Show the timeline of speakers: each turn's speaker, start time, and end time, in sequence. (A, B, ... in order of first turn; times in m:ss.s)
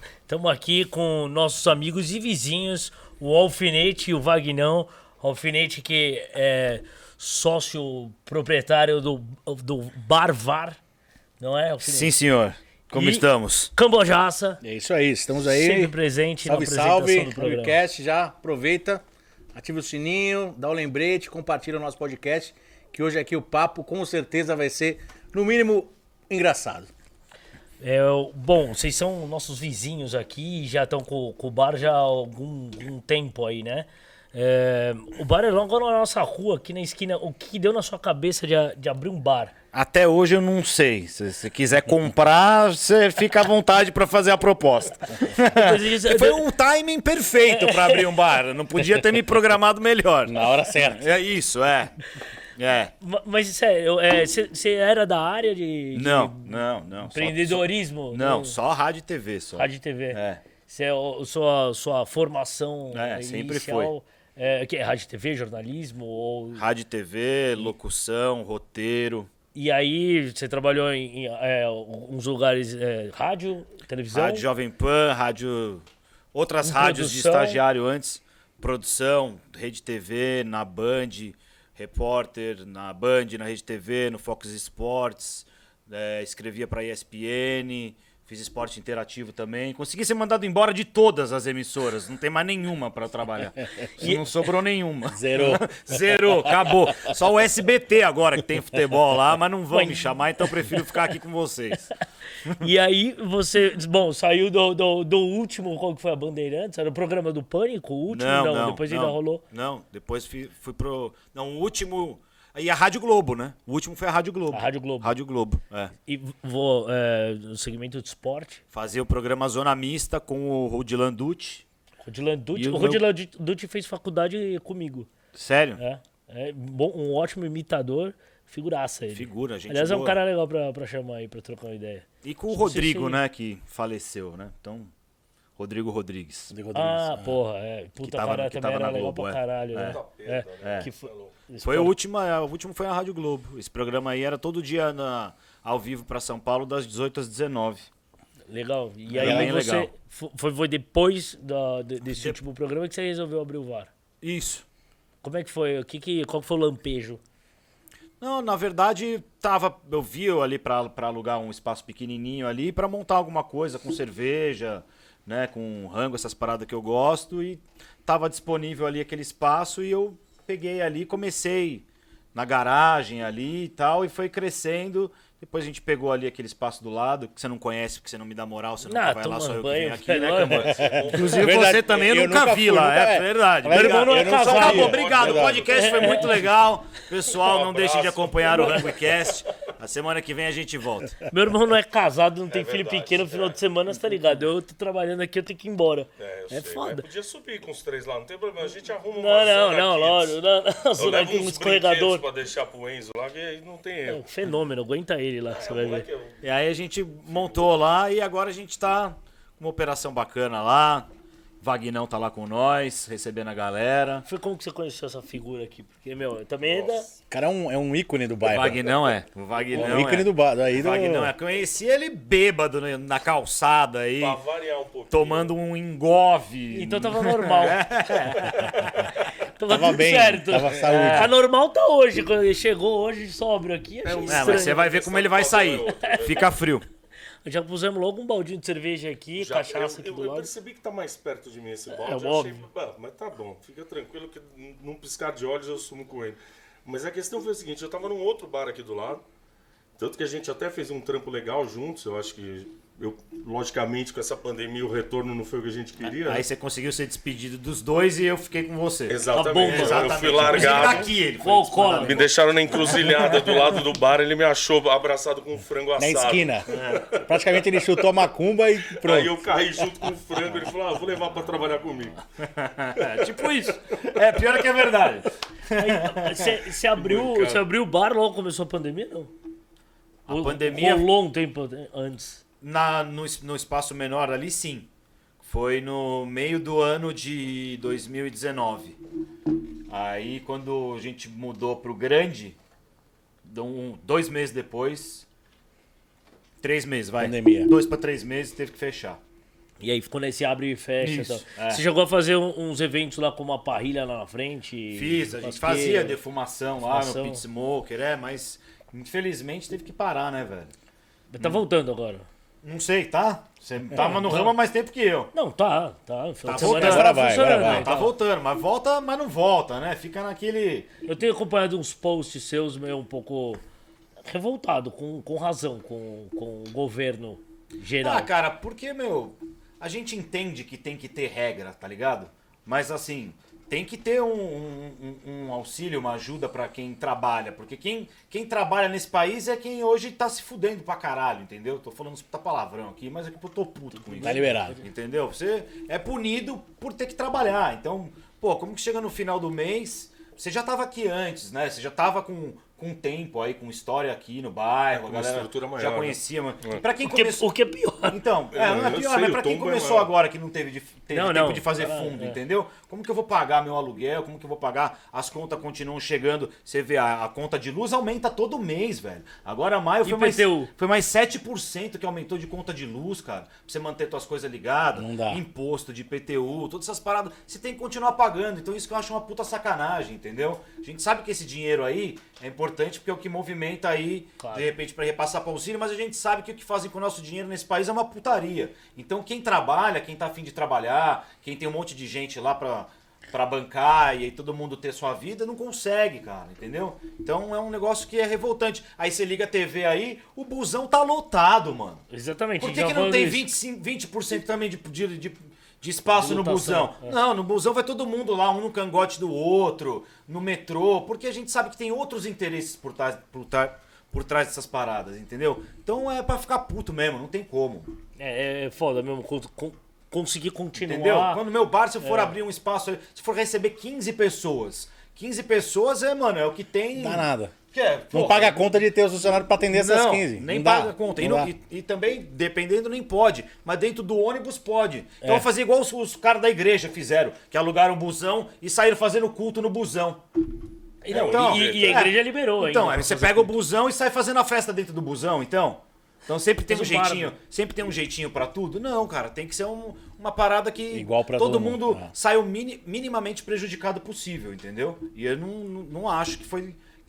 0:00.3-0:10.8 A
0:11.4-0:12.2 A
0:11.8-0:13.7 B
0:12.9-0:14.6 A
0:14.6-0:15.9 C
0:15.4-0:17.8 A
0:16.4-0:19.0 C
0:19.5-0:26.9 C
0:27.8-0:39.5 A
0:39.7-0:52.0 B
0:45.4-0:46.5 A
0:47.5-0:48.0 A
0:50.3-0:51.1 C
0:52.6-0:52.9 B
0:53.0-0:58.6 A
0:55.9-1:00.4 B
0:59.6-1:06.6 A
1:02.9-1:03.9 B
1:06.6-1:09.3 B
1:09.6-1:14.4 A
1:14.1-1:41.9 B
1:16.6-1:17.6 A
1:35.1-1:35.7 C
1:36.4-1:37.1 C
1:39.7-1:40.9 A
1:42.5-1:49.4 A
1:48.1-1:55.9 B
1:54.5-1:55.2 A
1:56.1-1:58.6 A
1:58.7-2:01.6 B
2:02.0-2:05.1 A
2:02.5-2:03.0 B
2:05.3-2:05.8 B
2:05.8-2:13.2 A
2:09.1-2:10.2 B
2:12.2-2:14.9 B
2:15.6-2:16.5 B
2:16.5-2:17.4 C
2:16.7-2:22.0 A
2:18.0-2:20.0 B
2:19.8-2:21.3 D
2:20.6-2:20.9 B
2:21.6-2:27.9 B
2:28.5-2:33.9 A
2:29.1-2:29.9 B
2:29.2-2:29.5 C
2:34.2-2:34.6 B
2:35.2-2:37.2 A
2:38.2-3:11.3 B
2:58.8-3:00.7 A
3:00.4-3:02.0 D
3:00.8-3:05.6 C
3:03.7-3:05.0 A
3:04.5-3:06.0 D
3:05.7-3:06.5 A
3:07.3-3:09.3 D
3:11.3-3:17.0 A
3:12.5-3:13.6 D
3:16.2-3:20.4 D
3:19.2-3:22.2 A
3:21.0-3:24.2 D
3:24.1-3:26.1 A
3:25.5-3:26.4 D
3:26.4-3:31.1 B
3:31.6-3:34.2 B
3:34.2-3:37.1 A
3:36.6-3:37.1 D
3:37.3-3:39.0 C
3:38.4-3:44.4 B
3:39.7-3:40.0 A
3:39.7-3:41.3 C
3:44.2-3:45.5 D
3:45.1-3:49.2 B
3:46.7-3:47.8 A
3:49.5-3:54.9 A
3:49.7-3:51.4 C
3:50.9-3:51.2 B
3:54.0-3:56.6 D
3:54.3-3:56.8 B
3:55.9-3:56.3 A
3:57.4-4:00.5 A
3:59.4-4:09.2 D
4:01.9-4:02.7 A
4:10.0-4:16.5 D
4:16.2-4:23.7 B
4:19.1-4:21.1 D
4:19.3-4:22.2 A
4:22.0-4:27.3 D
4:26.0-4:29.5 C
4:26.7-4:27.2 B
4:28.9-4:32.2 D
4:32.4-4:36.6 B
4:35.7-4:39.3 A
4:37.0-4:37.6 D
4:40.3-4:41.1 B
4:40.3-4:42.4 A
4:42.6-4:44.9 B
4:45.4-4:49.0 B
4:49.9-4:52.6 B
4:53.4-4:55.3 B
4:56.6-4:59.2 B
4:57.2-4:57.7 C
4:59.8-5:06.2 A
5:01.0-5:01.8 B
5:04.9-5:10.7 B
5:06.8-5:07.4 A
5:11.3-5:12.3 A
5:12.6-5:15.3 B
5:13.9-5:14.6 A
5:15.3-5:18.1 A
5:16.4-5:20.9 B
5:16.6-5:17.9 C
5:21.1-5:23.6 A
5:24.3-5:28.3 A
5:28.0-5:57.5 B
5:44.1-5:44.8 A
5:44.2-5:44.8 C
5:54.9-5:56.8 D
5:57.0-5:58.2 A
5:58.1-6:42.0 B
5:58.5-6:00.1 D
6:01.1-6:02.4 A
6:10.0-6:10.7 A
6:15.0-6:15.4 C
6:24.4-6:24.7 A
6:42.1-6:43.4 A
6:42.6-6:57.9 B
6:46.2-6:47.2 A
6:58.2-7:01.4 A
7:00.8-7:08.6 B
7:02.0-7:02.4 A
7:06.9-7:07.5 C
7:08.1-7:11.5 C
7:09.7-7:20.3 B
7:21.0-7:23.6 A
7:21.1-7:36.8 B
7:21.1-7:22.1 D
7:26.7-7:27.3 A
7:30.9-7:32.1 C